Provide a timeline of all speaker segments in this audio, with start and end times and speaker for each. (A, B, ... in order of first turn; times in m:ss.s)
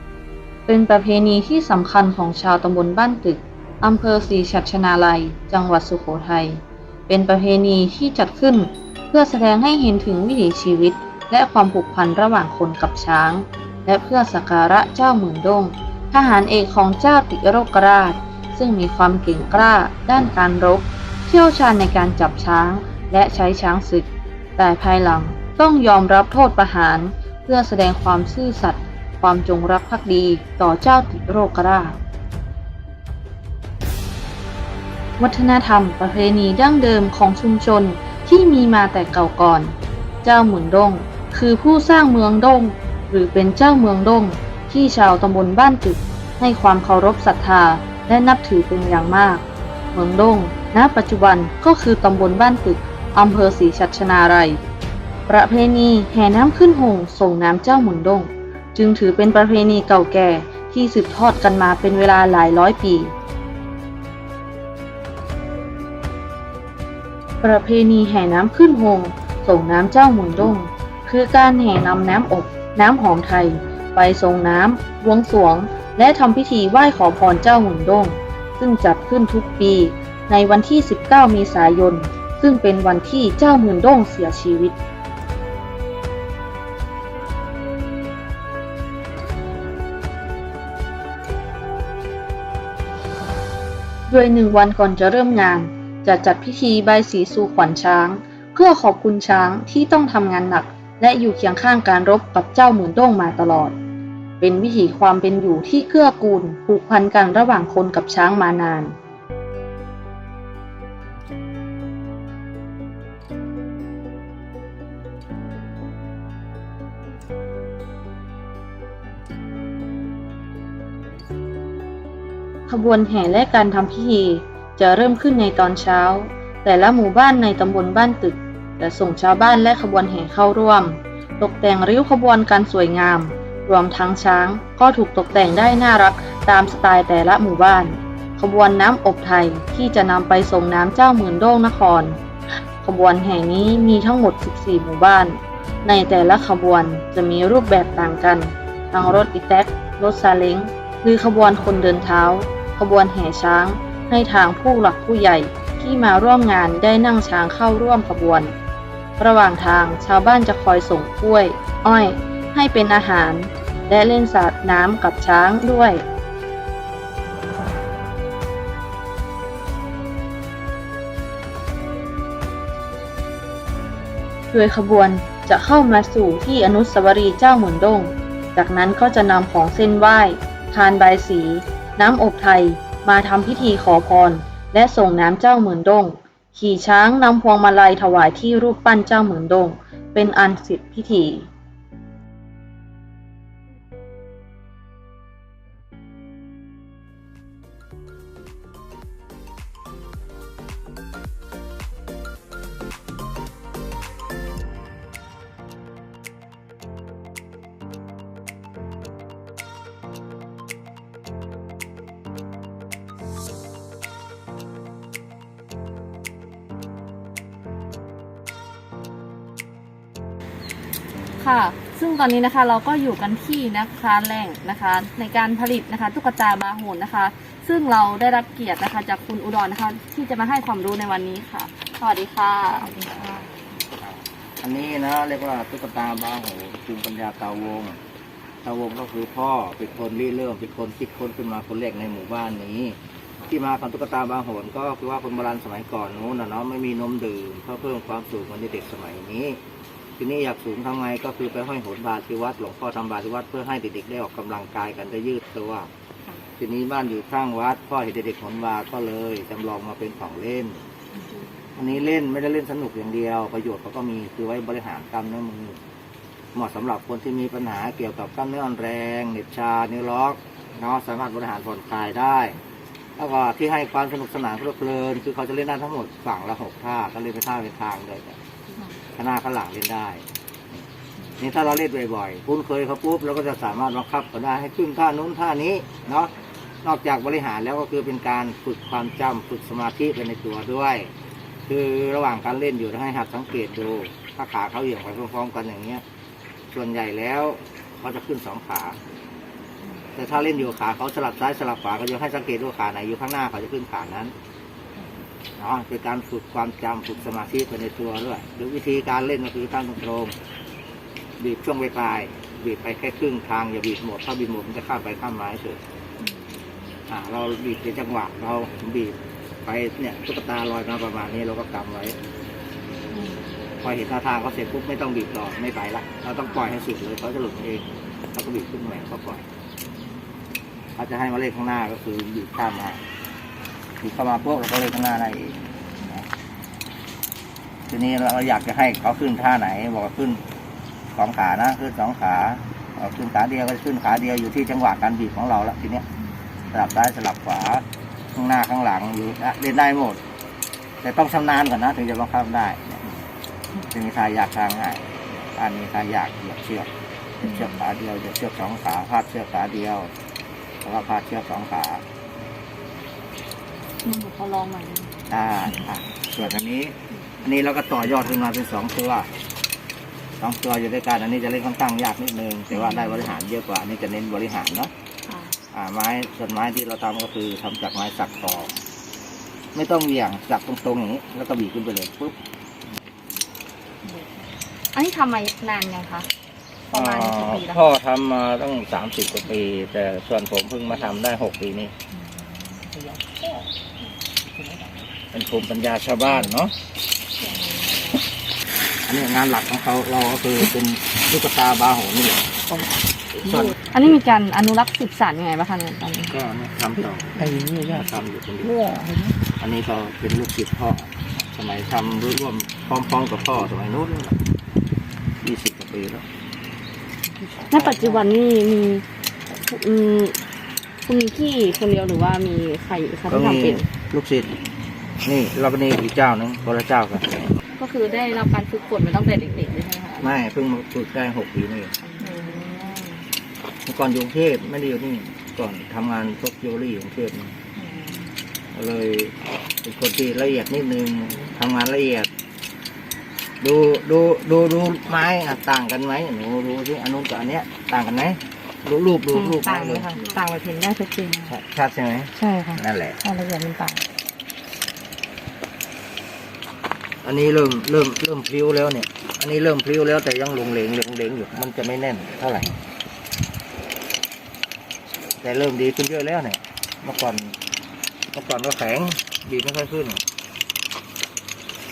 0:00.7-0:32.0 A
0:35.2-0:39.7 A
0:40.2-0:49.4 A
0:49.9-0:54.6 A
0:55.3-1:03.1 A
1:07.4-1:24.8 A
1:34.1-1:43.8 A
1:44.4-1:48.9 A
2:02.7-2:22.2 A
2:22.8-2:38.5 A
2:39.2-2:46.0 A
2:54.5-3:11.5 A
3:41.4-3:53.3 B
3:54.0-3:58.0 C
3:58.6-4:03.0 C
4:03.5-4:09.6 C
4:10.2-4:15.9 C
4:16.6-4:20.8 C
4:21.8-4:25.8 C
4:26.5-4:32.6 C
4:33.2-4:38.4 C
4:39.2-4:40.8 C
4:41.4-4:46.3 C
4:46.8-4:51.1 C
4:51.7-4:56.0 C
4:56.7-4:59.0 C
5:00.2-5:04.3 C
5:05.6-5:10.3 C
5:11.4-5:15.8 C
5:17.1-5:22.2 C
5:23.8-5:29.5 C
5:31.0-5:33.0 C
5:34.0-5:36.3 C
5:37.9-5:40.4 C
5:41.2-5:46.1 C
5:46.7-5:50.2 C
5:51.0-5:53.0 C
5:53.8-5:56.9 C
5:57.4-6:00.1 C
6:00.8-6:02.0 C
6:04.0-6:05.1 B
6:05.3-6:09.3 C
6:10.4-6:14.9 C
6:15.7-6:18.7 C
6:19.7-6:22.4 C
6:24.9-6:26.3 B
6:26.9-6:27.8 B
6:26.9-6:32.0 C
6:32.8-6:33.6 D
6:34.6-6:34.9 D
6:35.3-6:36.7 C
6:39.1-6:42.8 C
6:43.4-6:43.8 C
6:43.9-6:46.3 B
6:46.3-6:54.4 C
6:55.4-6:56.3 C
6:57.7-7:00.4 B
6:57.7-6:58.2 C
7:01.1-7:03.9 B
7:03.3-7:04.5 C
7:05.2-7:07.5 C
7:07.8-7:10.3 B
7:10.2-7:12.0 C
7:12.0-7:13.1 B
7:12.4-7:12.6 D
7:13.9-7:17.6 C
7:17.8-7:18.2 B
7:18.7-7:22.3 C
7:23.6-7:30.3 C
7:29.6-7:31.4 D
7:29.9-7:31.4 B
7:31.5-7:33.2 C
7:33.3-7:34.0 D
7:33.3-7:33.8 B
7:37.2-7:42.8 C
7:45.4-7:47.6 C
7:48.3-7:50.2 C